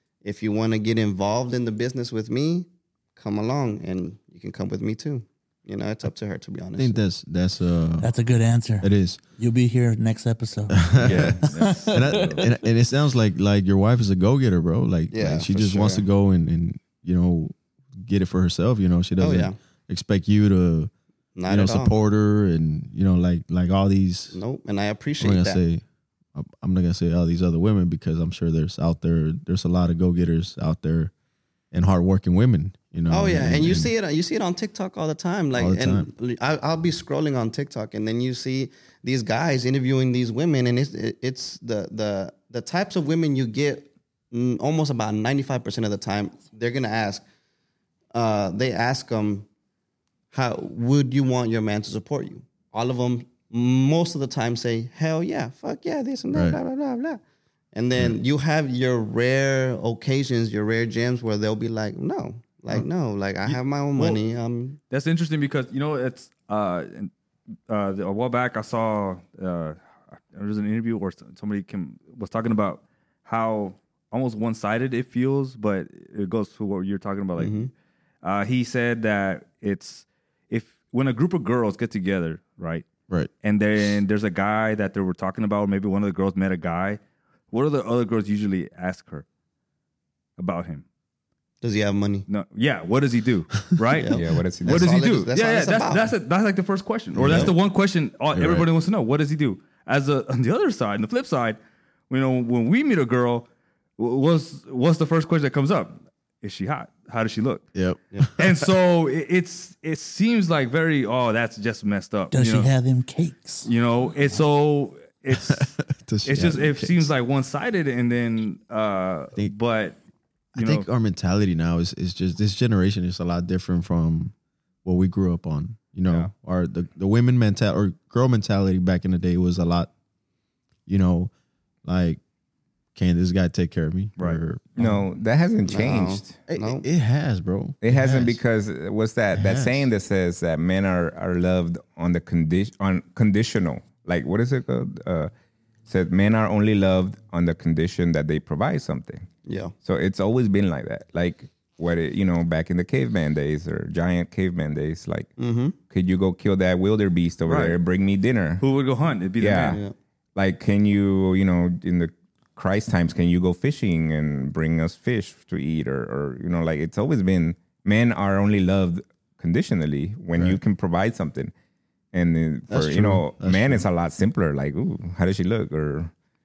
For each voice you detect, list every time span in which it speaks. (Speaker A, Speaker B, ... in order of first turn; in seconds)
Speaker A: 0.2-7.0, 15.1-16.0, 19.2-19.6, 21.3-21.9, 24.3-25.6, 33.1-47.2, 48.1-49.5, 50.3-57.2, 57.7-64.8, 77.4-77.7, 91.6-92.2, 93.9-96.1, 135.6-136.8, 149.4-149.7, 155.4-155.8, 159.7-159.9
Speaker B: 6.8-8.1, 8.8-9.2, 10.7-20.9, 21.5-24.4, 25.2-25.8, 26.3-31.1, 31.7-33.9, 35.5-36.1, 56.3-56.6, 97.1-97.5, 98.3-98.7, 107.7-108.7, 115.3-117.1, 120.5-124.3, 124.8-129.9, 130.9-131.3, 131.8-132.2, 132.9-135.1, 136.5-138.4, 139.3-139.9, 172.7-173.9
Speaker C: 8.0-12.1, 112.3-113.7
Speaker D: 11.0-12.4, 63.4-64.2, 64.9-67.1, 67.7-77.7, 78.2-82.8, 83.4-87.0, 87.5-89.2, 90.4-90.8, 92.3-101.6, 102.1-103.5, 104.0-107.7, 108.4-112.7, 113.6-115.7, 116.2-120.0, 120.5-120.8, 157.4-157.8, 158.6-159.8
Speaker E: 94.1-94.9, 134.8-136.4, 137.8-145.3, 145.9-149.3, 149.8-155.3, 155.9-158.6, 159.4-159.8, 160.3-171.5, 172.1-176.1